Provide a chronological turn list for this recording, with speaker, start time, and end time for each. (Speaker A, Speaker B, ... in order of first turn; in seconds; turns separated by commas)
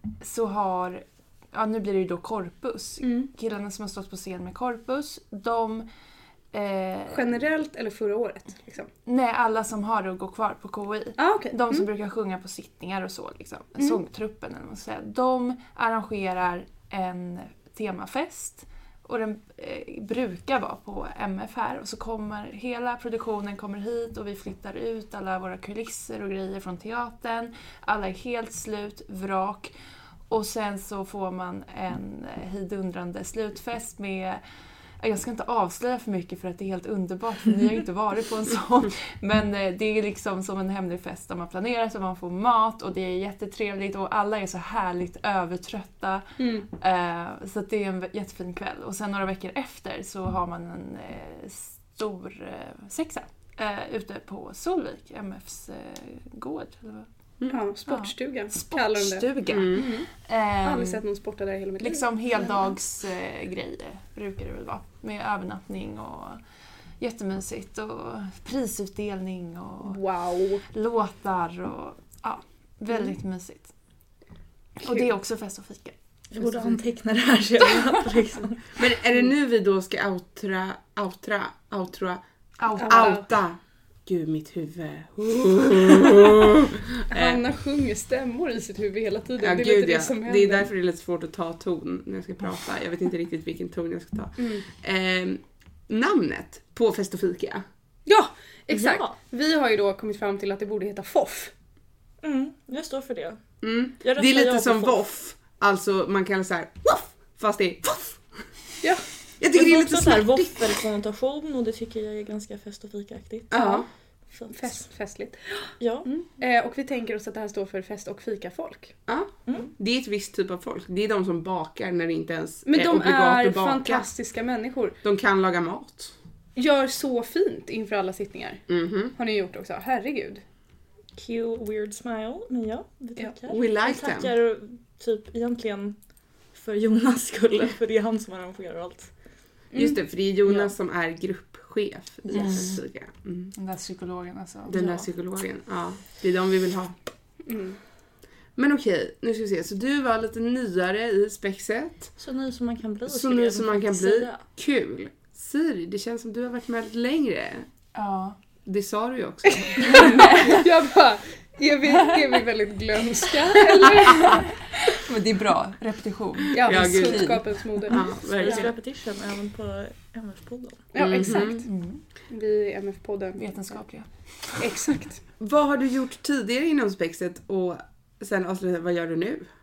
Speaker A: 0.2-5.9, Speaker B: 3.0-3.3, Speaker A: 6.5-7.3, Speaker B: 7.1-8.9, Speaker A: 9.1-29.7, Speaker B: 11.2-11.9, Speaker A: 30.3-34.4, Speaker A: 35.0-57.1, Speaker B: 46.4-46.7, Speaker B: 57.5-60.1, Speaker A: 57.9-61.0, Speaker C: 59.5-59.9, Speaker B: 60.6-62.5, Speaker A: 61.8-66.4, Speaker A: 67.0-70.0, Speaker B: 69.8-70.6, Speaker A: 70.7-73.7, Speaker A: 74.8-76.0, Speaker D: 76.3-78.7, Speaker C: 78.8-82.2, Speaker A: 82.6-83.3, Speaker C: 82.8-87.4, Speaker B: 82.8-83.3, Speaker B: 87.1-90.7, Speaker C: 89.4-97.6, Speaker B: 94.4-94.6, Speaker B: 98.1-101.5, Speaker D: 98.7-99.2, Speaker D: 102.2-103.4, Speaker C: 103.6-108.2, Speaker D: 104.0-105.0, Speaker C: 109.4-110.7, Speaker D: 109.5-113.5, Speaker C: 113.5-113.9, Speaker B: 113.5-113.8, Speaker D: 114.3-114.8, Speaker B: 114.5-119.0, Speaker D: 115.8-116.1, Speaker C: 119.1-124.1, Speaker B: 122.7-125.0, Speaker C: 125.0-126.1, Speaker B: 126.6-130.4, Speaker C: 128.7-129.1, Speaker D: 131.2-136.0, Speaker C: 133.5-134.3, Speaker D: 136.5-139.1, Speaker B: 139.7-140.0, Speaker C: 139.8-143.6, Speaker A: 142.3-142.8, Speaker A: 143.6-145.1, Speaker C: 144.7-147.0, Speaker B: 147.5-147.8, Speaker C: 148.6-152.1, Speaker D: 152.2-154.4, Speaker C: 153.1-157.7, Speaker A: 157.9-158.4, Speaker C: 158.7-160.6, Speaker B: 159.8-164.5, Speaker A: 159.8-160.7, Speaker A: 164.8-167.9, Speaker B: 166.5-168.7, Speaker C: 166.5-168.7, Speaker D: 167.9-170.9, Speaker B: 170.9-171.7, Speaker C: 171.0-171.7, Speaker A: 171.6-172.0, Speaker B: 172.3-173.5, Speaker A: 173.4-174.7, Speaker B: 174.6-175.2, Speaker C: 175.4-179.5